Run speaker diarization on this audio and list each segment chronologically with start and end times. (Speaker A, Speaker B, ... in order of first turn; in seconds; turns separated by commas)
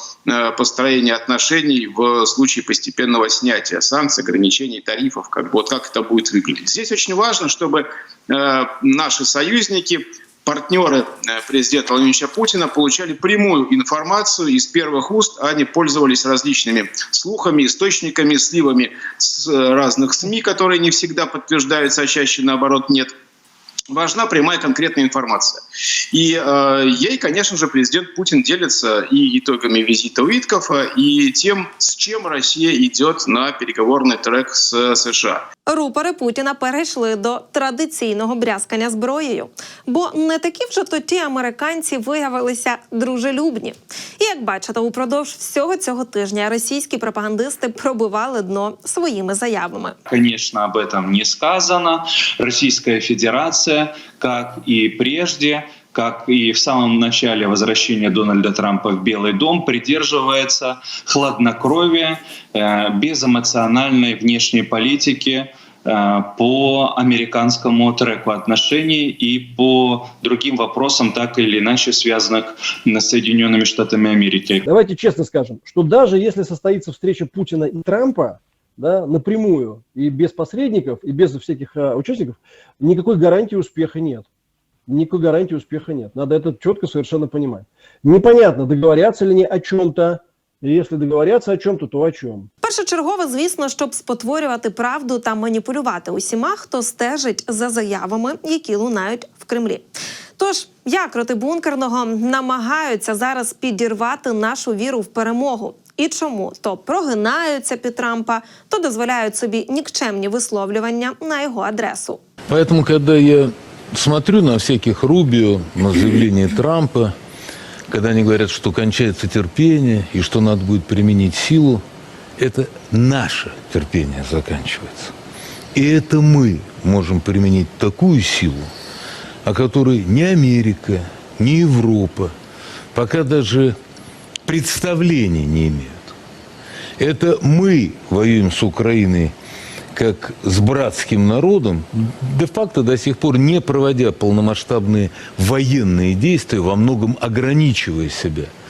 Speaker A: 0.4-7.8, Speaker A: 8.6-11.0, Speaker A: 11.5-18.9, Speaker A: 19.7-23.1, Speaker A: 24.0-25.5, Speaker A: 26.2-35.4, Speaker B: 35.7-50.0, Speaker C: 50.1-74.6, Speaker D: 74.7-84.3, Speaker D: 84.9-92.5, Speaker B: 92.6-99.8, Speaker B: 100.4-112.2, Speaker E: 112.5-117.1, Speaker E: 117.9-121.8, Speaker E: 122.4-125.1, Speaker E: 125.7-128.7, Speaker E: 129.4-132.3, Speaker E: 132.9-133.8, Speaker E: 134.5-136.1, Speaker E: 137.0-139.3, Speaker E: 139.9-148.5